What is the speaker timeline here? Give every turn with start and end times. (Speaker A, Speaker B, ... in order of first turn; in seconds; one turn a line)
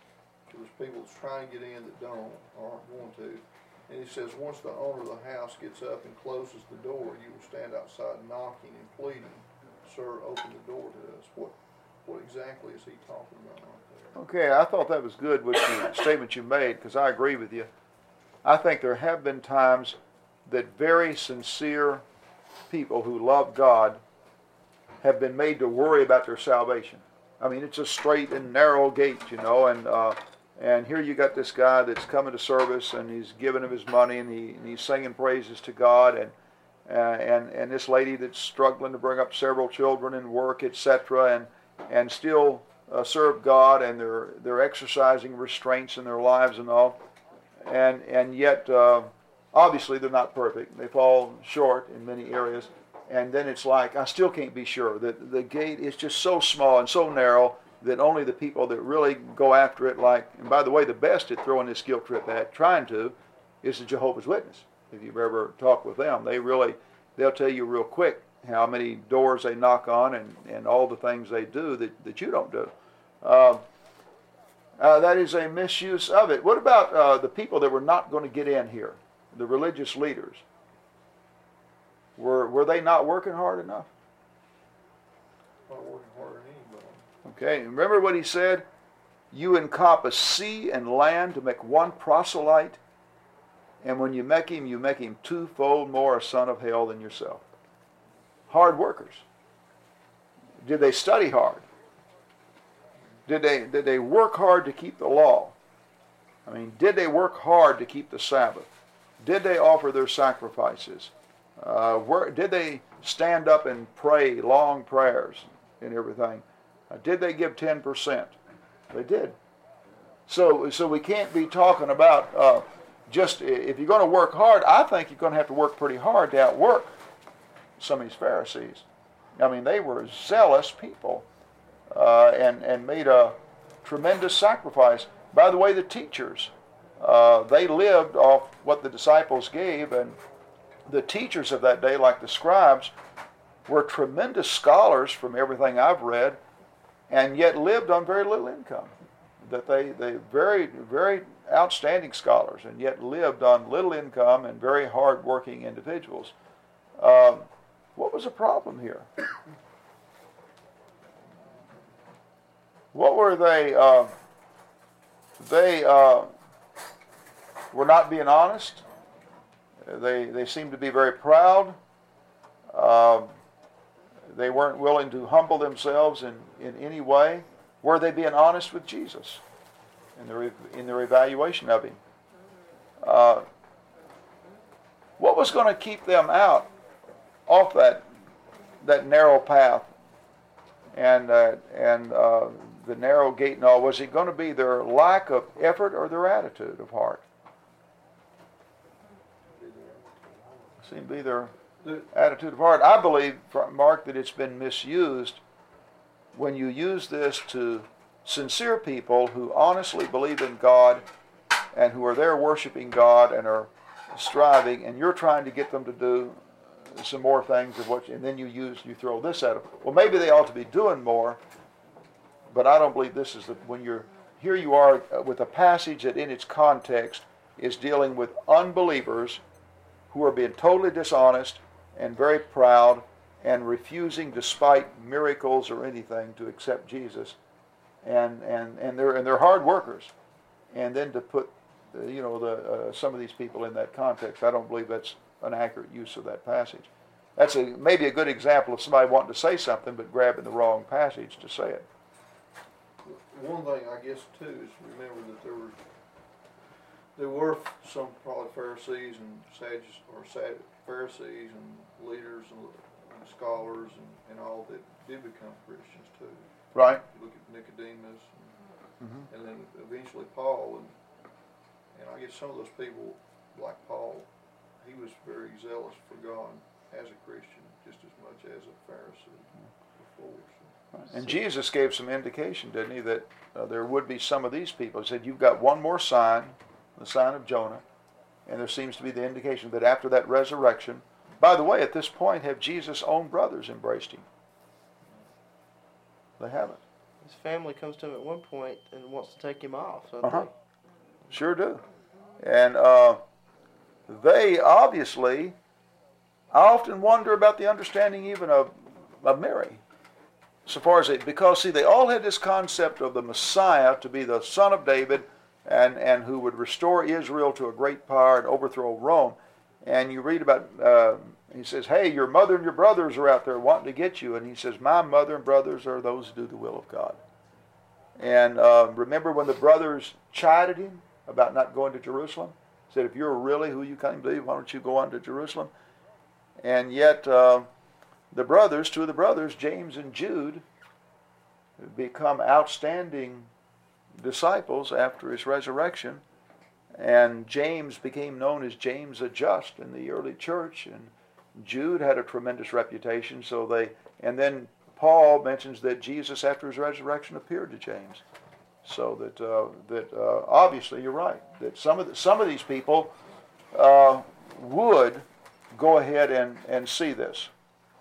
Speaker A: 0.5-14.2
Speaker B: 14.2-17.7
Speaker B: 18.4-22.0
Speaker B: 22.7-24.0
Speaker B: 25.0-36.3
Speaker B: 36.9-47.0
Speaker B: 47.6-73.6
Speaker B: 74.8-80.4
Speaker B: 82.2-83.9
Speaker A: 85.7-87.1
Speaker B: 87.2-88.7
Speaker B: 89.3-92.8
Speaker B: 93.8-97.4
Speaker B: 98.5-99.2
Speaker B: 100.6-101.7
Speaker B: 103.3-105.5
Speaker B: 106.5-108.7
Speaker B: 109.2-118.3
Speaker B: 118.9-119.4
Speaker B: 120.3-126.9
Speaker B: 127.8-128.8
Speaker B: 129.4-131.3
Speaker B: 131.9-140.2
Speaker B: 140.9-142.9
Speaker B: 143.7-146.4
Speaker B: 147.1-156.3
Speaker B: 157.0-159.1
Speaker B: 162.9-164.1
Speaker B: 165.4-166.3
Speaker B: 167.7-168.8
Speaker B: 169.8-171.8
Speaker B: 172.7-173.3
Speaker B: 174.3-179.4
Speaker B: 180.2-182.0
Speaker B: 183.0-183.4
Speaker B: 185.2-186.7
Speaker B: 187.5-188.1
Speaker B: 188.8-189.9
Speaker B: 190.9-197.2
Speaker A: 199.5-200.8
Speaker B: 200.8-201.5
Speaker A: 201.8-202.1
Speaker B: 202.1-205.4
Speaker B: 206.3-211.1
Speaker B: 211.7-221.4
Speaker B: 222.5-229.4
Speaker B: 230.1-237.4
Speaker B: 238.0-240.1
Speaker B: 240.7-251.8
Speaker A: 253.0-255.8
Speaker A: 257.2-268.6
Speaker B: 266.7-267.0
Speaker B: 269.0-269.3
Speaker A: 269.3-271.0
Speaker A: 271.9-274.3
Speaker A: 274.8-281.1
Speaker B: 281.0-287.8
Speaker B: 288.5-294.3
Speaker B: 296.4-296.8
Speaker C: 297.2-300.5
Speaker B: 301.3-301.8
Speaker B: 302.4-303.2
Speaker B: 304.1-305.6
Speaker B: 306.5-309.8
Speaker B: 310.7-327.2
Speaker B: 328.2-335.7
Speaker B: 336.6-337.7
Speaker B: 338.3-340.6
Speaker B: 341.8-343.5
Speaker B: 344.2-346.2
Speaker B: 346.9-358.2
Speaker B: 358.9-363.1
Speaker B: 363.7-367.5